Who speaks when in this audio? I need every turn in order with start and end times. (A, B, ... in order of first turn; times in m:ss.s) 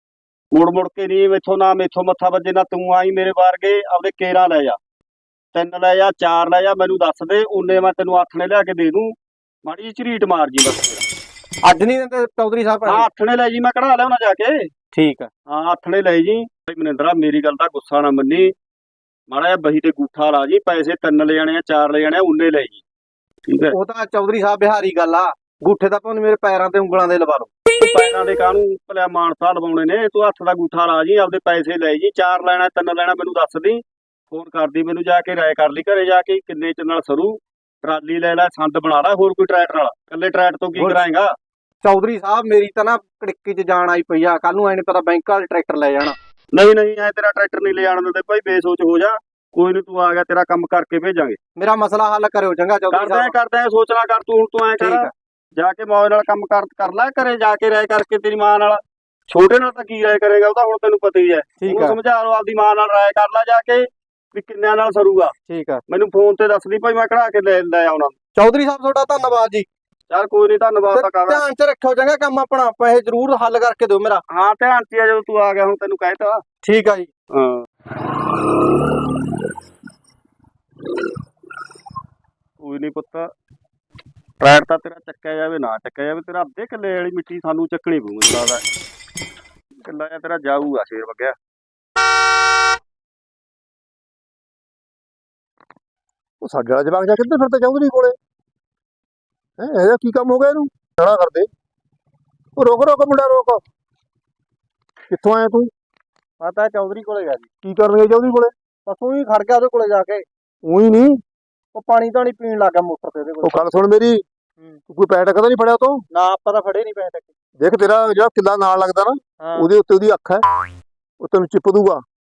0:00.5-0:04.8 A
0:05.5-0:11.0 A
0:11.6-0:13.1 B
0:12.9-0:14.7 A
0:14.9-0:15.3 B
0:15.5-0:18.5 A
0:19.3-0:22.8 A
0:23.5-0:23.8 A
0:23.7-0:27.5 B
0:27.8-0:41.3 A
0:40.8-0:41.0 B
0:41.8-0:46.2 B
0:46.5-0:51.4 A
0:51.6-0:53.4 B
0:52.9-1:05.3 A
0:54.8-0:55.1 B
1:01.6-1:02.0 B
1:05.5-1:05.8 B
1:05.9-1:08.2 A
1:08.4-1:09.7 B
1:10.1-1:11.4 A
1:10.9-1:14.2 B
1:14.3-1:16.4 A
1:16.6-1:17.1 B
1:17.3-1:17.6 A
1:22.6-1:23.3 A
1:24.4-1:28.6 A
1:29.8-1:31.4 A
1:36.4-1:38.2 C
1:39.6-1:41.5 C
1:42.6-1:43.6 C
1:45.1-1:45.7 C
1:46.4-1:47.5 B
1:47.6-1:48.5 C
1:48.9-1:50.2 B
1:50.7-1:51.2 C
1:51.7-1:53.6 B
1:53.4-1:54.2 C
1:54.9-1:56.0 C
1:56.1-1:57.3 B
1:57.6-2:00.4 C
1:59.4-1:59.7 B
2:01.2-2:02.0 C